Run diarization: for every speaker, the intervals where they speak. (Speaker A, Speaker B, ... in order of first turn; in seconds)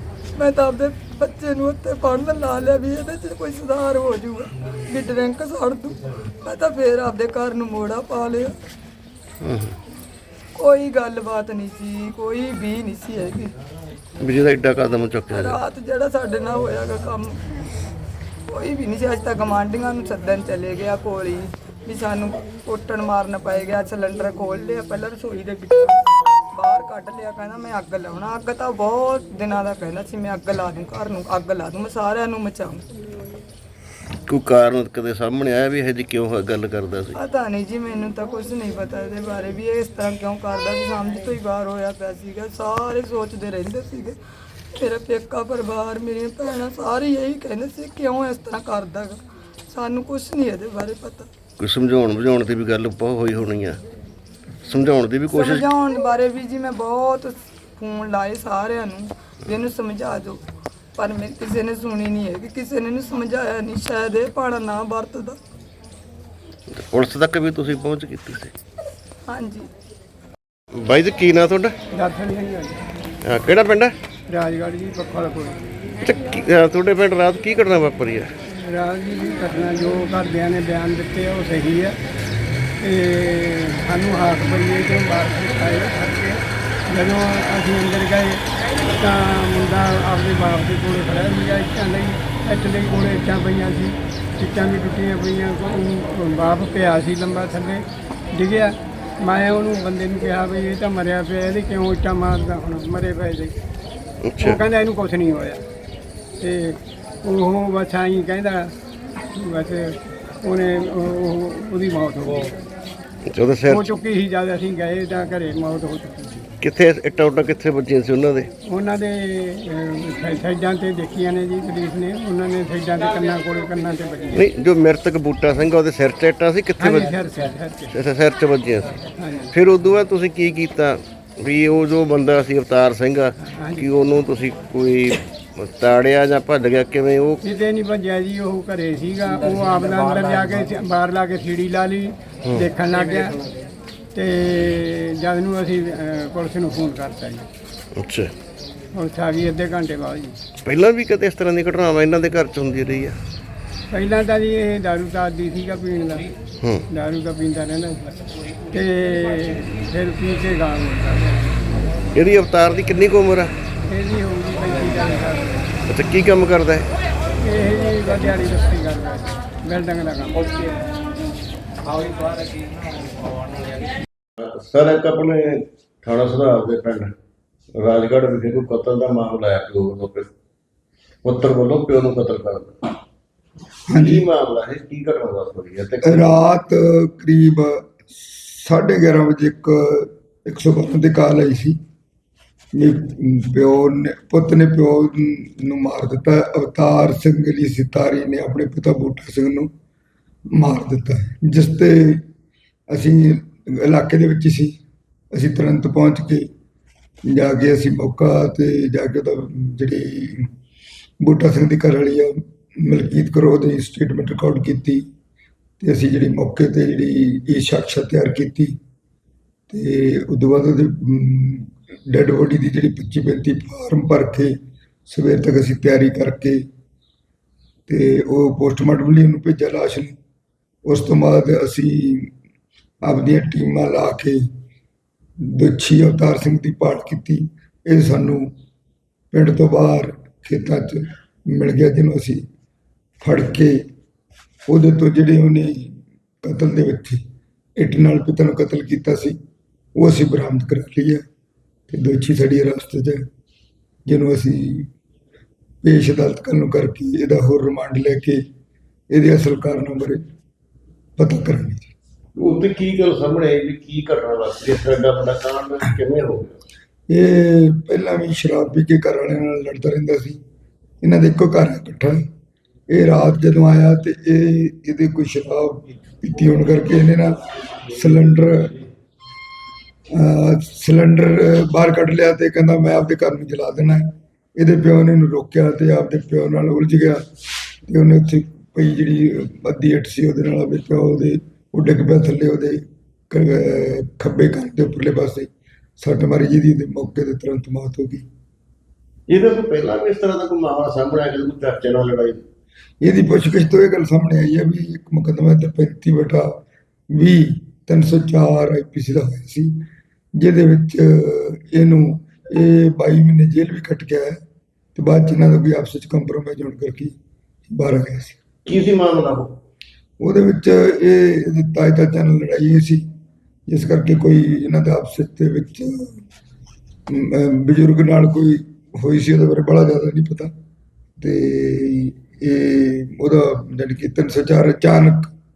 Speaker A: 0.3-8.6, 10.6-13.6, 15.4-17.6, 18.5-32.9, 37.2-44.2, 44.7-51.3, 55.3-60.4, 61.0-65.4, 69.3-69.7
Speaker B: 9.4-9.7, 14.2-15.5, 34.3-37.2, 51.6-53.8, 54.7-55.7, 66.8-68.5, 70.8-71.7, 73.3-74.0, 76.0-78.3, 104.3-104.6, 113.3-113.9, 116.6-118.5, 124.3-127.1, 127.9-137.4, 148.0-148.3, 150.7-153.2, 162.2-163.5, 165.9-166.9, 174.4-177.1, 177.8-180.3, 181.2-182.8, 184.0-186.4, 262.4-266.6, 299.3-302.4, 318.7-319.5
Speaker C: 71.9-72.8, 74.3-75.6, 78.5-82.0, 82.8-103.5, 104.4-105.6, 106.4-108.7, 109.3-112.5, 113.7-116.5, 118.7-124.5, 126.8-127.9, 129.2-129.5, 133.4-133.9, 137.4-143.4, 144.1-147.5, 148.9-150.4, 153.9-156.3, 156.9-158.2, 158.7-161.4, 163.8-165.7, 167.4-170.5
Speaker D: 183.9-184.3, 186.0-191.8, 192.8-199.7, 200.6-202.2, 202.9-204.7, 205.3-206.5, 207.3-210.5, 211.2-215.1, 215.8-218.7, 219.7-224.5, 225.1-226.6, 227.9-230.2, 230.9-232.3, 233.0-234.4, 235.4-238.5, 239.3-242.4, 243.2-243.8, 244.7-247.2, 247.8-249.4, 250.0-251.2, 251.9-253.3, 254.1-254.9, 255.8-258.4, 259.1-260.2, 261.2-261.9, 267.1-270.4, 271.0-272.2, 272.9-277.3, 277.8-278.8, 280.1-287.2, 287.9-295.5, 296.0-298.2, 303.0-306.5, 307.1-309.7, 310.4-314.4, 314.9-317.2, 317.7-318.4, 320.2-323.0, 323.7-326.1, 327.1-330.5, 331.2-335.3